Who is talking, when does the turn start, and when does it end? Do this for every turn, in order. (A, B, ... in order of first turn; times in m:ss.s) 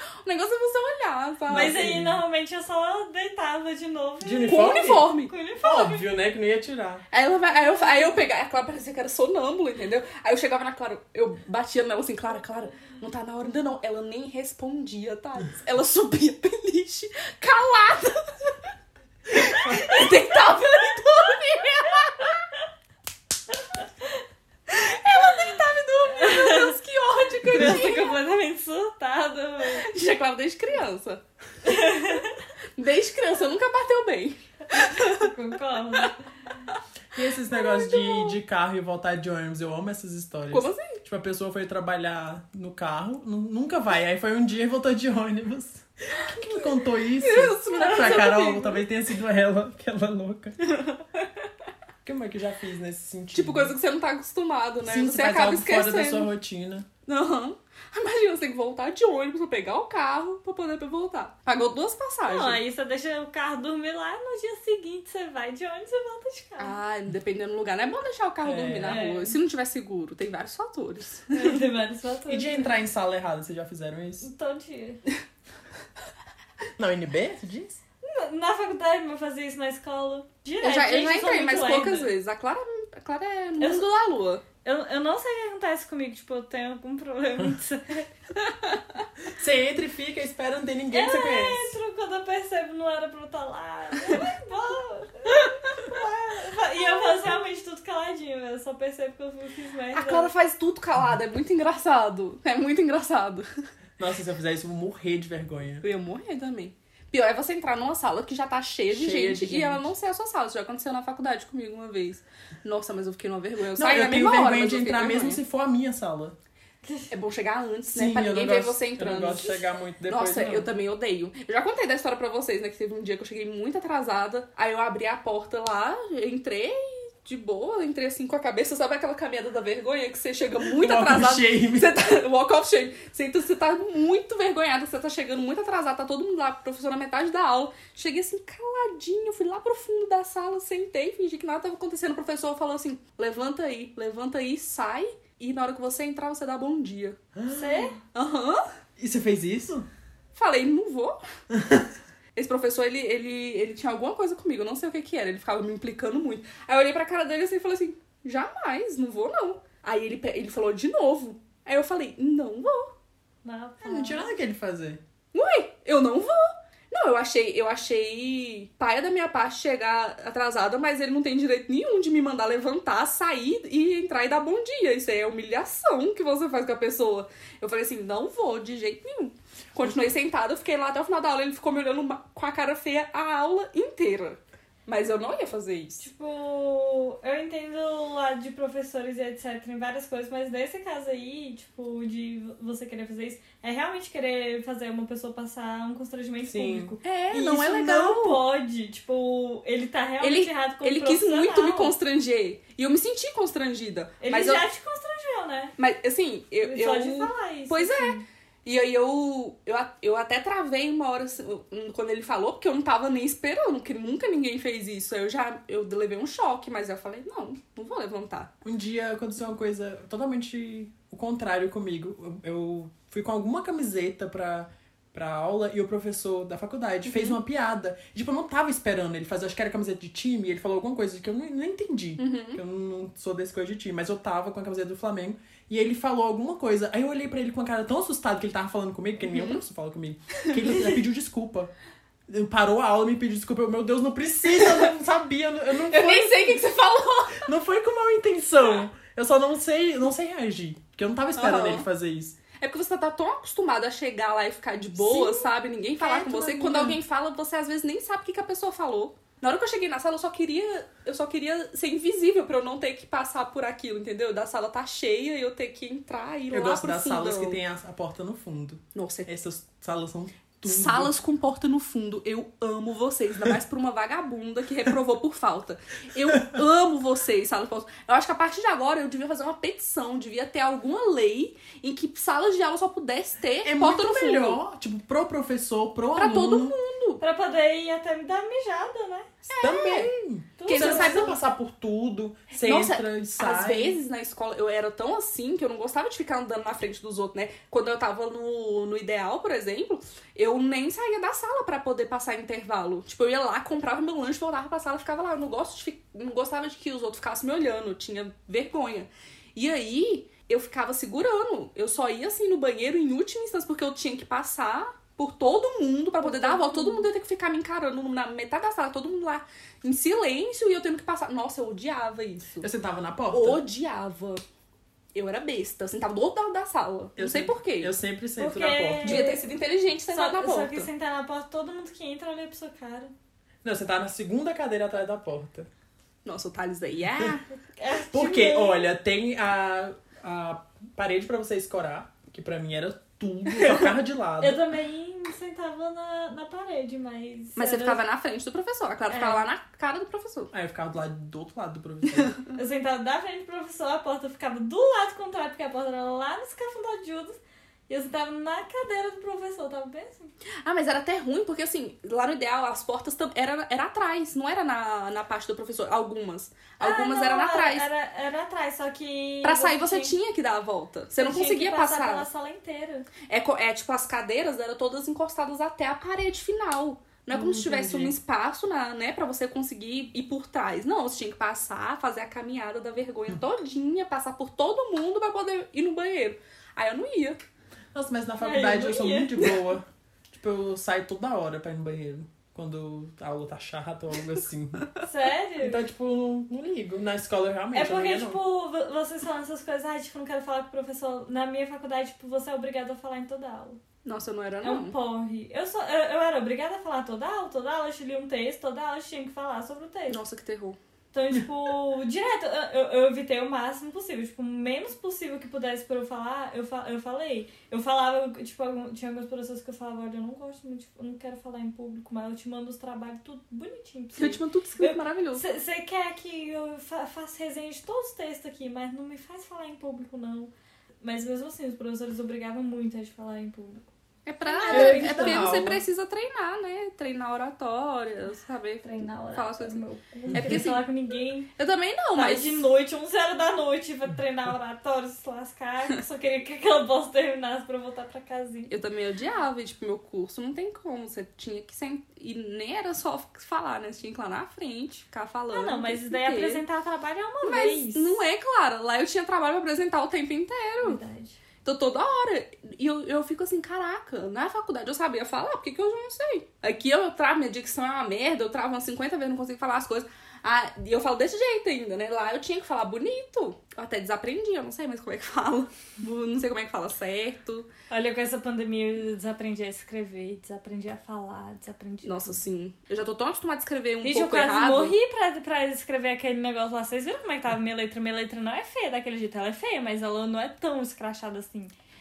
0:00.2-0:01.9 A
0:01.5-0:02.2 B
0:01.5-0:06.1 C
0:04.2-0:07.0 B
0:04.5-0:05.3 A
0:07.1-0:18.7 A
0:19.3-0:22.4 A
0:24.7-0:28.2 A
0:26.2-0:26.7 C
0:27.4-0:29.9 C
0:29.8-0:31.2 A
0:31.6-0:32.4 C
0:32.8-0:35.3 A
0:34.7-0:36.2 C
0:37.1-0:50.7 B
0:37.5-0:38.1 A
0:40.5-0:41.0 A
0:46.3-0:48.8 A
0:52.0-0:53.7 B
0:53.3-0:56.3 A
0:54.8-0:56.9 B
0:57.1-1:02.6 A
1:02.3-1:06.7 C
1:06.6-1:11.6 A
1:08.4-1:09.0 B
1:08.8-1:09.4 C
1:11.3-1:12.7 C
1:12.3-1:14.3 B
1:14.2-1:15.0 C
1:16.8-1:17.8 B
1:18.0-1:22.1 C
1:20.6-1:24.4 A
1:23.6-1:23.9 C
1:24.6-1:28.1 C
1:28.4-1:28.8 A
1:29.2-1:31.7 B
1:30.9-1:40.3 C
1:39.9-1:43.5 A
1:44.0-1:45.8 B
1:45.8-1:55.4 A
1:48.9-1:49.9 B
1:53.7-1:56.3 B
1:56.8-1:57.1 C
1:57.1-2:27.2 A
1:57.9-2:00.7 B
2:10.6-2:11.9 B
2:27.3-2:27.9 B
2:27.5-2:28.0 C
2:28.1-2:28.6 A
2:29.0-2:29.9 B
2:30.3-2:31.2 A
2:31.5-2:31.9 B
2:32.4-2:42.9 A
2:43.4-2:44.3 C
2:43.8-2:45.0 B
2:45.3-3:06.1 A
3:06.0-3:21.9 C
3:16.4-3:16.9 B
3:17.0-3:18.4 A
3:20.2-3:24.6 A
3:24.2-3:25.8 C
3:25.8-3:38.5 A
3:26.6-3:28.2 C
3:38.6-4:01.7 B
3:47.0-3:47.4 A
3:52.2-3:52.6 A
3:59.2-3:59.6 A
4:02.3-4:06.6 B
4:04.5-4:04.9 A
4:05.9-4:07.5 A
4:07.4-4:12.4 B
4:11.3-4:11.9 A
4:12.6-4:27.6 A
4:15.0-4:16.9 C
4:26.5-4:31.1 B
4:28.9-4:29.3 A
4:30.6-4:44.6 A
4:43.6-4:46.7 B
4:46.1-4:47.2 A
4:47.2-4:49.3 C
4:49.4-4:50.1 A
4:49.6-4:54.0 B
4:50.6-4:51.3 C
4:50.6-4:51.3 A
4:52.6-5:22.7 A
5:16.2-5:17.1 C
5:22.6-5:23.6 B
5:23.3-5:24.4 A
5:25.1-5:27.9 A
5:27.2-5:29.3 B
5:28.4-5:29.4 C
5:29.0-5:30.9 A
5:30.1-5:33.1 C
5:33.6-5:35.7 B
5:36.2-5:37.4 A
5:37.7-5:38.9 C
5:38.1-5:44.6 B
5:44.4-5:48.0 C
5:47.6-5:50.5 A
5:49.1-5:49.4 C
5:50.5-5:52.3 B
5:52.1-5:52.5 A
5:52.5-5:57.4 C
5:57.9-6:00.3 C
6:00.6-6:07.9 A
6:06.8-6:10.1 C
6:09.4-6:12.3 A
6:11.2-6:13.1 C
6:13.3-6:27.4 A
6:17.3-6:18.2 B
6:27.9-6:34.9 B
6:28.4-6:29.6 C
6:35.0-6:35.8 C
6:35.6-6:38.4 B
6:37.7-6:43.8 C
6:44.0-6:44.9 A
6:44.6-6:50.2 C
6:50.1-6:50.8 A
6:51.1-7:10.5 C
7:04.2-7:05.4 A
7:11.0-7:13.9 C
7:14.2-7:20.9 A
7:14.4-7:15.7 C
7:14.7-7:15.8 B
7:18.8-7:21.5 C
7:20.3-7:20.7 B
7:21.6-7:22.6 A
7:22.1-7:28.7 C
7:28.7-7:36.6 A
7:35.5-7:38.2 C
7:37.4-7:41.0 A
7:40.8-7:41.4 C
7:41.6-7:57.7 A
7:57.9-8:02.4 C
8:02.0-8:04.9 A
8:04.0-8:11.7 C